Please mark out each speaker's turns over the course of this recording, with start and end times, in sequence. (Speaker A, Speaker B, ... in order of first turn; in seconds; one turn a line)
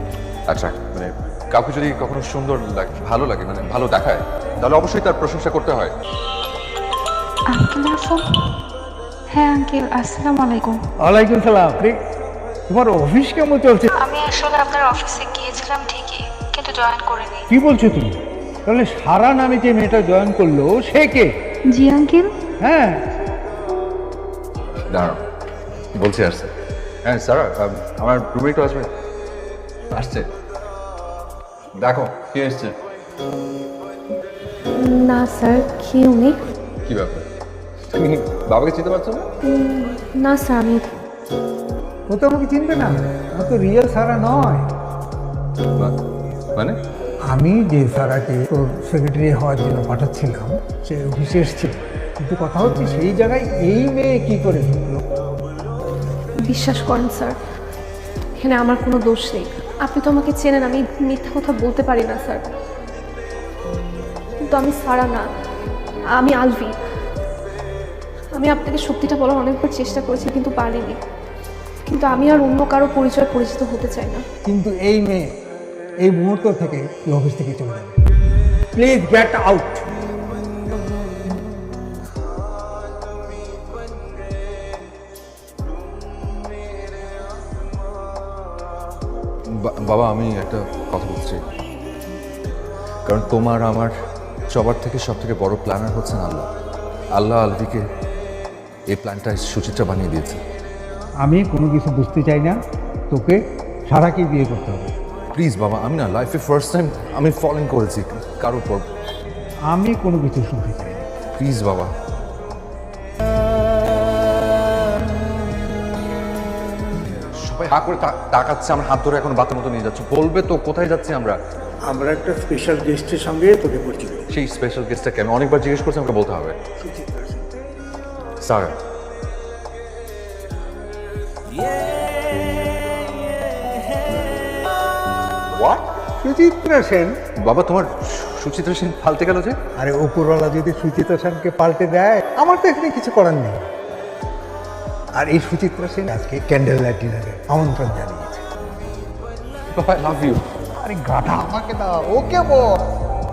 Speaker A: 0.5-5.9
Speaker B: 7.5-8.5
Speaker B: 9.3-10.8
Speaker C: 11.0-11.9
Speaker C: 12.7-13.9
Speaker B: 13.9-17.4
Speaker C: 17.5-21.3
Speaker B: 21.7-22.3
Speaker C: 22.6-23.0
Speaker A: 24.9-25.2
Speaker A: 25.9-26.5
Speaker A: 27.0-28.9
Speaker A: 29.9-30.3
Speaker A: 31.8-32.7
Speaker D: 34.7-36.4
Speaker A: 36.9-37.2
Speaker A: 37.9-39.3
Speaker D: 39.4-41.0
Speaker C: 42.1-44.7
Speaker C: 47.3-55.0
Speaker D: 56.5-57.4
Speaker D: 58.4-62.4
Speaker D: 64.4-65.2
Speaker D: 66.2-66.7
Speaker D: 68.3-71.0
Speaker D: 71.9-74.2
Speaker C: 74.5-75.3
Speaker C: 76.0-78.0
Speaker C: 78.7-79.9
Speaker A: 89.6-91.4
Speaker A: 93.0-93.9
Speaker A: 94.5-96.5
Speaker A: 97.1-97.8
Speaker A: 98.9-100.4
Speaker C: 101.2-102.6
Speaker C: 103.1-104.9
Speaker A: 105.3-108.8
Speaker C: 109.7-111.0
Speaker A: 111.4-111.9
Speaker A: 117.3-121.4
Speaker C: 121.9-124.2
Speaker A: 124.3-126.5
Speaker C: 126.8-127.4
Speaker A: 128.4-128.8
Speaker C: 135.5-137.2
Speaker A: 137.4-139.6
Speaker C: 139.8-143.6
Speaker C: 145.2-148.4
Speaker A: 149.7-150.4
Speaker C: 150.8-152.8